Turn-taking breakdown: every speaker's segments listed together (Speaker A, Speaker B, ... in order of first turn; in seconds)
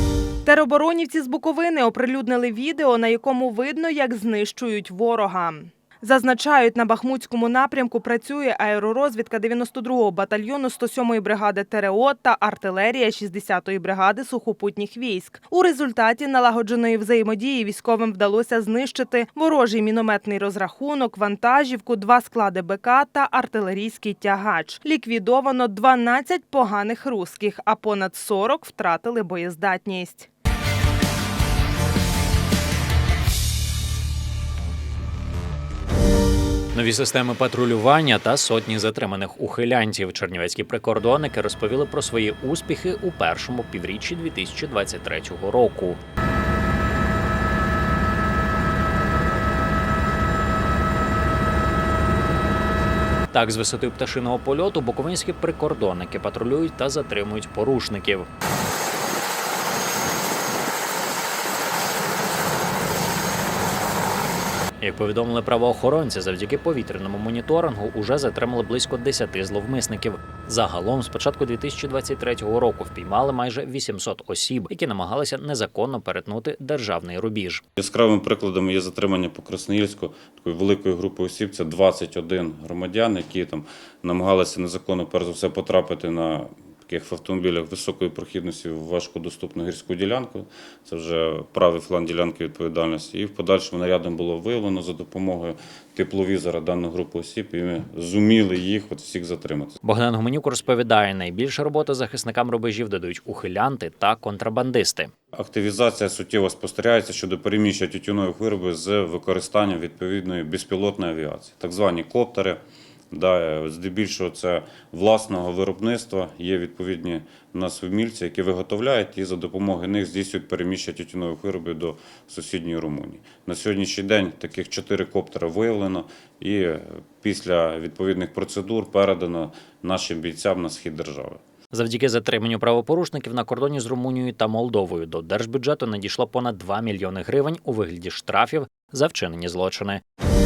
Speaker A: 0.4-30.3
Speaker B: 36.7-46.0, 53.3-58.2, 64.8-77.6, 99.8-105.1, 131.7-140.0
Speaker C: 77.8-99.8, 105.3-131.4